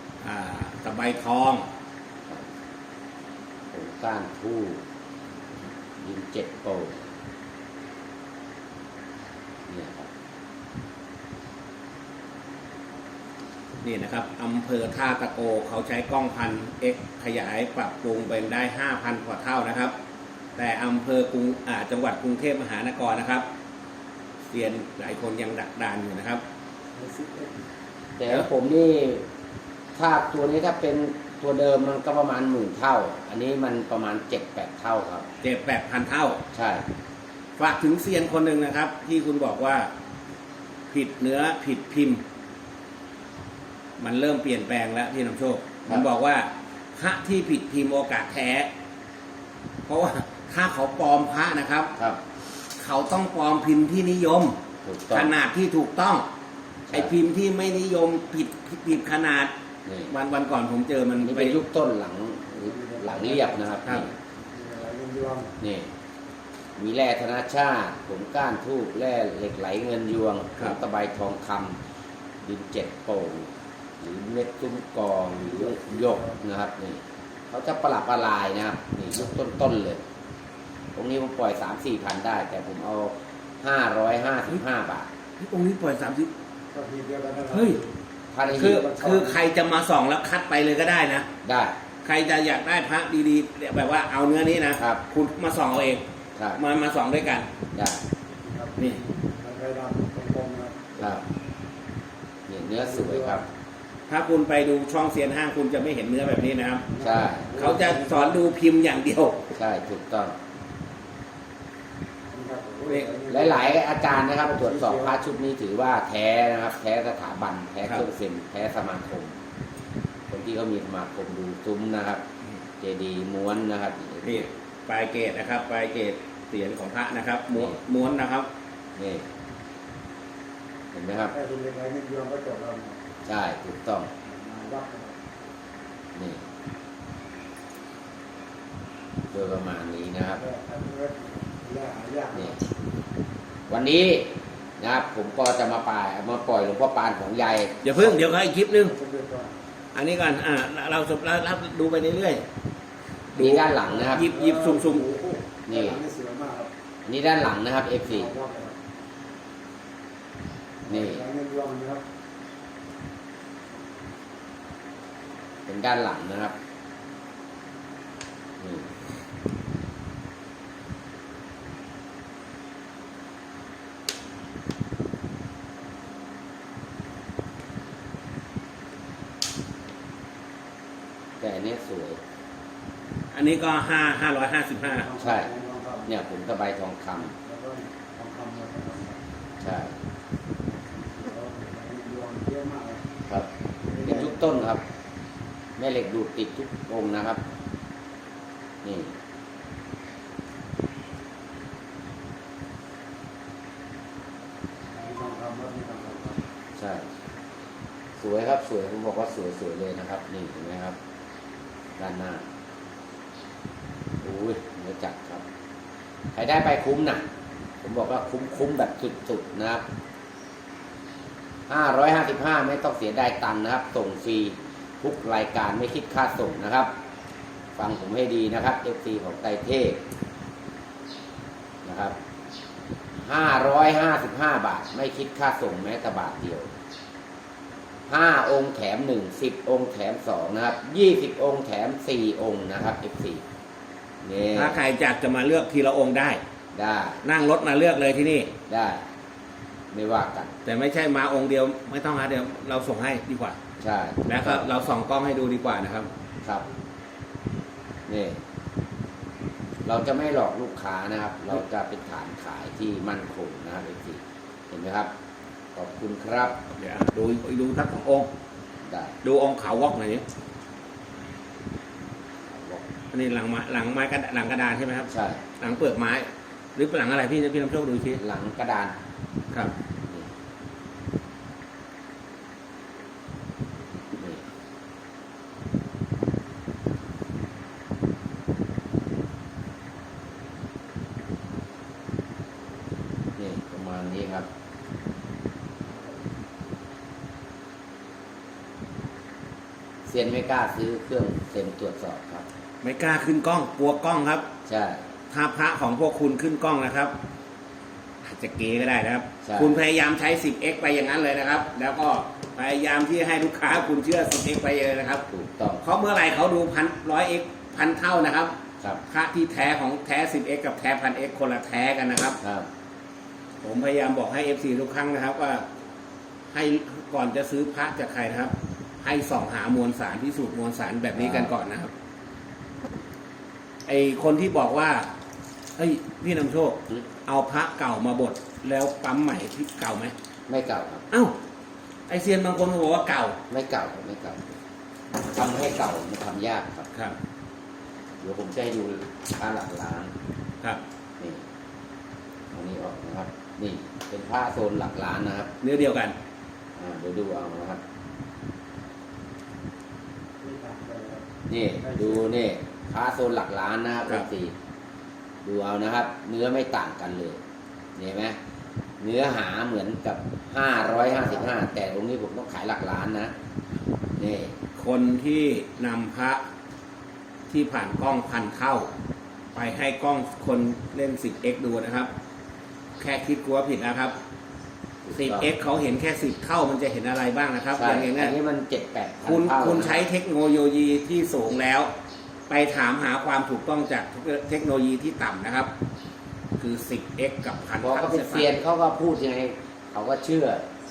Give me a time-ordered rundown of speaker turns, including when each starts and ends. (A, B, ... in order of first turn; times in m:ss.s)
0:00.2-0:01.7 A
0:03.7-0:04.8 B
0:06.0-0:07.0 B
0:09.7-0:10.1 B
0:13.8-0:19.9 A
0:20.6-0:23.4 A
0:24.5-0:26.4 A
0:26.9-0:27.6 C
0:28.2-0:29.2 B
0:30.0-0:35.3 B
0:35.4-0:36.4 A
0:36.5-0:36.9 B
0:37.6-0:39.9 A
0:40.9-0:42.2 A
0:44.0-0:48.7 A
0:49.8-0:51.9 A
0:52.8-0:54.6 A
0:54.8-0:55.3 B
0:55.1-0:56.2 A
0:56.9-0:59.5 A
0:59.8-1:00.1 B
1:00.1-1:01.6 A
1:01.2-1:04.1 B
1:02.6-1:03.7 C
1:04.3-1:05.6 C
1:05.6-1:05.9 B
1:06.8-1:11.8 B
1:12.4-1:20.0 B
1:15.4-1:16.4 C
1:20.9-1:25.1 B
1:25.4-1:26.3 A
1:26.7-1:27.9 C
1:27.5-1:27.8 A
1:28.3-1:28.9 B
1:28.5-1:29.4 C
1:28.5-1:31.3 A
1:31.4-1:31.8 B
1:32.0-1:36.0 A
1:34.8-1:35.0 B
1:36.4-1:36.6 B
1:36.6-1:37.5 A
1:37.7-1:38.0 B
1:38.4-1:40.9 C
1:41.0-1:41.2 B
1:42.5-1:43.4 B
1:42.8-1:43.4 C
1:44.1-1:46.9 A
1:46.9-1:48.4 C
1:47.0-1:47.5 B
1:47.5-1:49.5 A
1:49.5-1:50.3 B
1:52.3-1:55.2 C
1:53.3-1:59.4 B
2:00.3-2:02.2 B
2:02.8-2:04.4 B
2:04.2-2:08.5 A
2:09.0-2:09.3 B
2:10.9-2:11.3 B
2:11.3-2:13.0 C
2:13.2-2:14.1 B
2:14.2-2:15.2 C
2:16.1-2:16.4 B
2:19.3-2:20.4 B
2:20.3-2:22.6 C
2:23.7-2:28.2 B
2:27.8-2:28.9 A
2:28.8-2:29.6 C
2:29.9-2:32.4 A
2:33.3-2:35.0 A
2:33.4-2:34.2 B
2:34.1-2:36.7 C
2:35.7-2:36.0 B
2:37.0-2:38.3 B
2:38.0-2:38.8 C
2:40.8-2:42.0 C
2:40.9-2:41.2 B
2:45.7-2:46.5 B
2:48.6-2:48.9 B
3:01.4-3:02.2 B
3:03.3-3:05.1 A
3:04.9-3:06.1 C
3:05.2-3:05.5 B
3:06.1-3:07.3 B
3:07.4-3:09.2 C
3:09.6-3:10.0 B
3:10.6-3:13.1 C
3:13.9-3:14.5 C
3:14.0-3:14.8 B
3:15.8-3:17.4 B
3:18.8-3:19.1 B
3:24.9-3:26.5 C
3:26.8-3:27.1 B
3:28.2-3:31.0 B
3:32.0-3:32.4 B
3:34.2-3:35.4 B
3:36.3-3:37.2 B
3:37.8-3:39.8 B
3:41.7-3:46.9 B
3:47.7-3:50.0 B
3:51.8-3:52.2 B
3:53.2-3:56.7 B
3:58.1-4:03.4 B
4:04.2-4:04.8 B
4:04.5-4:06.4 A
4:06.7-4:07.2 B
4:07.2-4:08.6 A
4:08.7-4:09.0 B
4:09.9-4:10.5 B
4:10.6-4:13.6 A
4:13.8-4:14.6 B
4:14.3-4:16.1 A
4:18.1-4:18.4 B
4:19.8-4:25.1 B
4:25.7-4:26.6 B
4:26.8-4:28.3 A
4:28.8-4:29.1 B
4:29.2-4:30.2 A
4:32.5-4:32.8 B
4:33.1-4:35.1 A
4:35.1-4:35.4 B
4:35.6-4:38.2 A
4:38.2-4:38.9 B
4:44.1-4:44.4 B
4:53.4-4:54.5 B
5:00.0-5:02.4 B
5:02.8-5:04.5 A
5:04.6-5:05.0 B
5:05.3-5:07.1 A
5:08.2-5:15.2 A
5:09.4-5:09.8 B
5:15.3-5:15.8 B
5:15.8-5:22.4 A
5:22.4-5:22.7 B
5:23.6-5:25.6 A
5:26.5-5:31.9 A
5:31.1-5:31.5 B
5:33.8-5:35.1 A
5:35.8-5:40.1 A
5:40.5-5:41.0 B
5:42.1-5:43.4 A
5:43.5-5:44.4 B
5:45.2-5:46.9 B
5:48.2-5:50.1 B
5:51.2-5:51.4 B
5:52.5-5:55.5 B
5:55.6-5:56.2 A
5:56.8-5:57.8 B
6:00.4-6:02.3 C
6:01.5-6:04.5 B
6:05.4-6:07.4 B
6:08.0-6:08.4 B
6:09.0-6:13.3 B
6:10.8-6:11.6 C
6:14.2-6:14.5 B
6:14.7-6:16.4 A
6:17.5-6:18.9 A
6:19.5-6:22.1 A
6:23.0-6:24.1 A
6:25.0-6:25.5 B
6:25.2-6:28.3 A
6:27.7-6:30.0 B
6:29.3-6:31.9 A
6:32.5-6:35.7 A
6:36.6-6:38.5 A
6:37.8-6:40.6 B